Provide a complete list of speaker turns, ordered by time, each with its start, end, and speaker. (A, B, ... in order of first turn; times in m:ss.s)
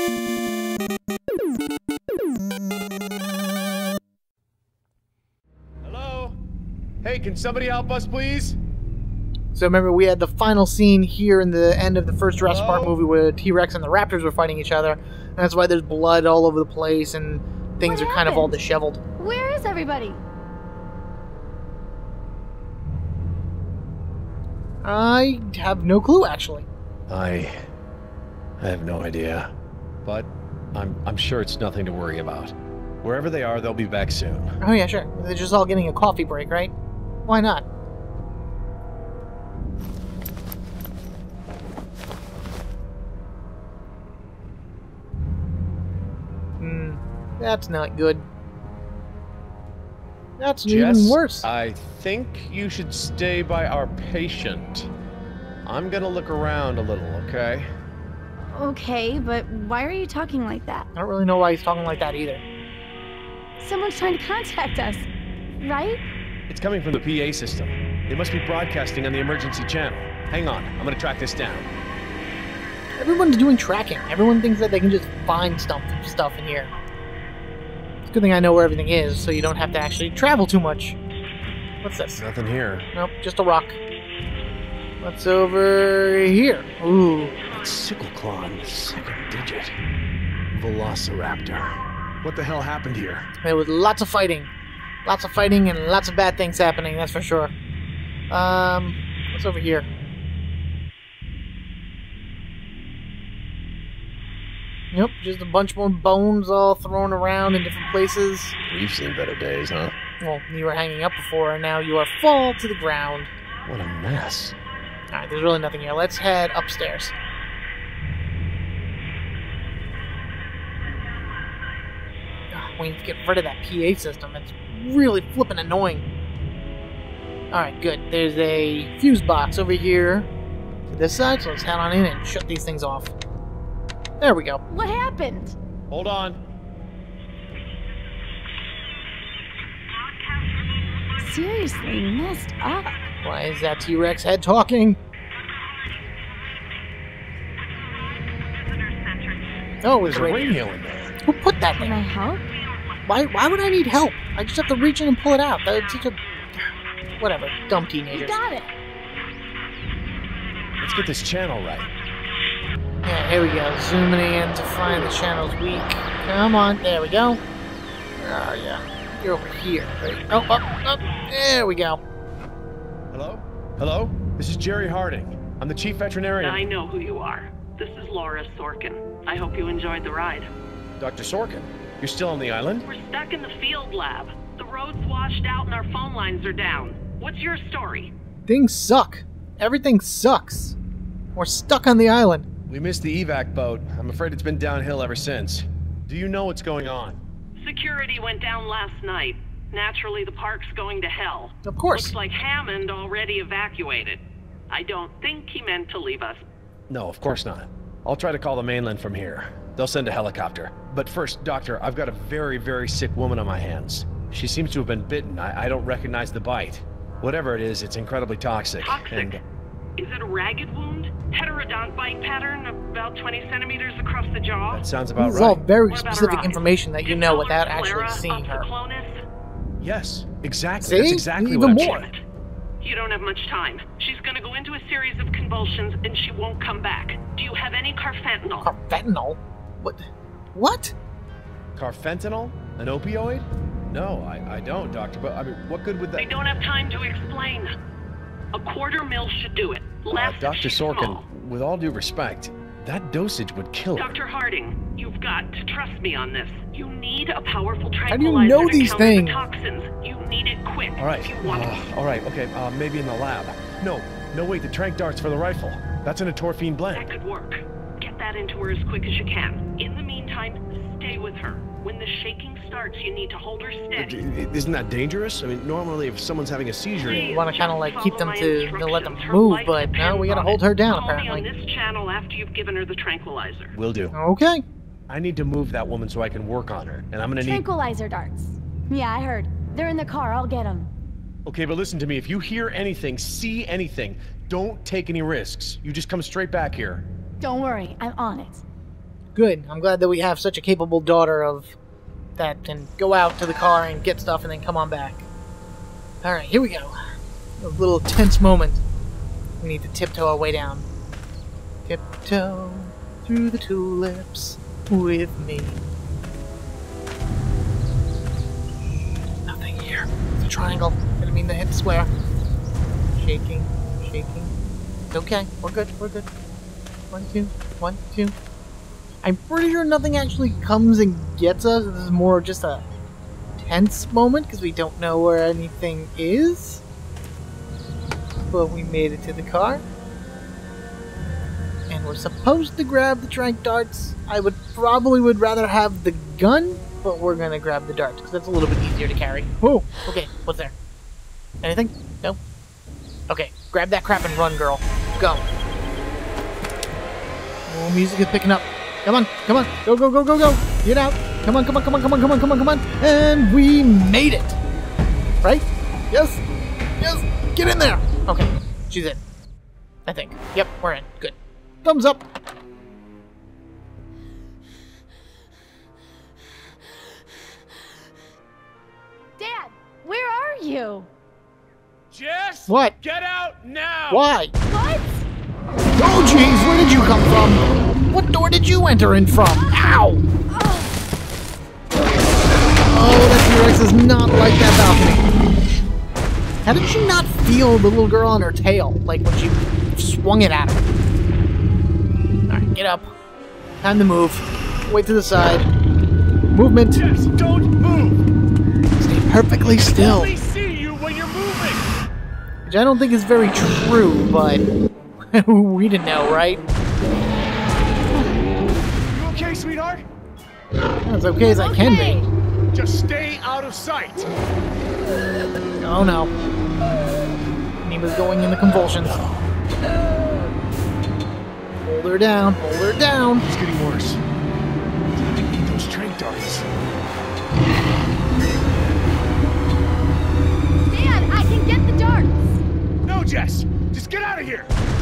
0:05.8-0:06.4 A
0:07.0-0:08.6 A
0:09.5-0:19.0 B
0:12.4-0:13.0 A
0:17.8-0:18.5 C
0:19.2-0:20.2 C
0:24.8-0:26.7 B
0:27.1-0:27.5 A
0:28.6-0:29.5 A
0:30.0-0:34.5 A
0:34.6-0:36.7 B
0:37.2-0:37.6 B
0:46.6-0:48.2 B
0:50.4-0:51.5 B
0:50.6-0:54.9 A
0:55.6-0:57.7 A
0:58.5-1:00.9 C
1:00.9-1:02.4 B
1:03.6-1:05.1 C
1:05.6-1:06.0 C
1:06.5-1:11.7 A
1:13.0-1:16.7 B
1:18.1-1:21.0 B
1:21.8-1:22.3 B
1:22.2-1:22.9 A
1:22.9-1:23.8 B
1:25.0-1:27.3 B
1:27.2-1:29.0 D
1:27.6-1:29.7 A
1:30.5-1:33.2 A
1:33.4-1:34.5 B
1:35.0-1:37.5 B
1:38.3-1:39.9 B
1:44.9-1:48.6 B
1:48.7-1:49.9 A
1:50.2-1:53.3 B
1:53.7-1:54.6 A
1:55.1-1:57.1 B
2:02.5-2:06.0 B
2:07.5-2:10.3 B
2:10.9-2:13.1 B
2:14.2-2:14.6 B
2:14.7-2:15.6 C
2:15.9-2:16.4 A
2:21.2-2:22.9 C
2:23.2-2:25.0 B
2:28.8-2:29.3 D
2:29.8-2:30.6 B
2:30.0-2:31.2 A
2:31.2-2:32.0 B
2:31.8-2:32.4 C
2:33.1-2:36.2 B
2:37.2-2:38.4 B
2:38.1-2:38.7 C
2:40.8-2:41.9 A
2:43.0-2:47.4 B
2:48.2-2:52.0 B
2:53.1-2:56.6 A
2:56.4-3:00.5 D
3:01.0-3:02.8 A
3:02.8-3:08.1 D
3:08.5-3:10.8 B
3:11.3-3:12.5 B
3:12.7-3:17.2 A
3:17.6-3:26.4 D
3:21.6-3:22.1 B
3:26.9-3:39.4 A
3:38.8-3:39.4 D
3:40.0-3:44.8 D
3:44.7-3:45.7 A
3:45.2-3:48.7 B
3:45.9-3:49.2 D
3:49.8-3:52.1 A
3:50.8-3:52.1 B
3:51.7-3:52.2 D
3:52.8-3:58.7 D
3:58.6-4:00.9 B
4:01.7-4:06.3 A
4:06.2-4:07.7 D
4:08.5-4:11.2 D
4:10.1-4:14.1 A
4:13.9-4:21.8 D
4:18.1-4:19.4 B
4:21.0-4:27.1 A
4:26.9-4:34.2 D
4:34.0-4:37.3 A
4:37.0-4:43.7 D
4:37.2-4:41.5 B
4:43.7-4:44.1 A
4:44.1-4:44.6 B
4:45.1-4:47.6 A
4:47.4-4:50.9 C
4:51.4-4:57.0 A
4:57.4-4:58.6 C
4:59.3-5:01.7 B
5:02.4-5:05.2 B
5:06.2-5:06.9 B
5:07.6-5:08.8 B
5:09.6-5:10.8 B
5:11.9-5:15.8 B
5:19.4-5:22.1 B
5:23.2-5:24.5 B
5:25.1-5:26.3 B
5:27.1-5:28.3 B
5:29.2-5:32.8 B
5:33.6-5:36.8 B
5:38.5-5:39.8 B
5:41.9-5:50.7 B
5:51.6-5:52.4 B
5:53.3-5:55.4 B
5:57.7-6:04.6 B
6:05.4-6:06.4 B
6:07.0-6:09.2 B
6:10.0-6:12.2 B
6:19.4-6:21.1 C
6:22.1-6:24.3 A
6:22.7-6:23.0 B
6:24.1-6:24.5 B
6:24.7-6:25.2 C
6:26.0-6:30.2 B
6:29.5-6:30.0 C
6:30.5-6:31.0 C
6:32.8-6:35.3 B
6:36.6-6:40.8 B
6:42.5-6:43.1 B
6:43.8-6:45.7 B
6:46.5-6:47.0 B
6:46.9-6:48.2 A
6:49.0-6:50.3 B
6:49.6-6:51.8 A
6:52.6-6:54.6 B
6:55.3-6:56.6 B
6:59.1-7:00.0 A
7:01.0-7:02.2 B
7:01.4-7:02.3 C
7:02.7-7:04.3 A
7:05.8-7:06.3 B
7:07.8-7:09.2 B
7:08.9-7:09.4 A
7:11.8-7:13.4 B
7:13.5-7:14.2 A
7:15.1-7:16.7 A
7:20.9-7:22.6 C
7:23.0-7:24.7 A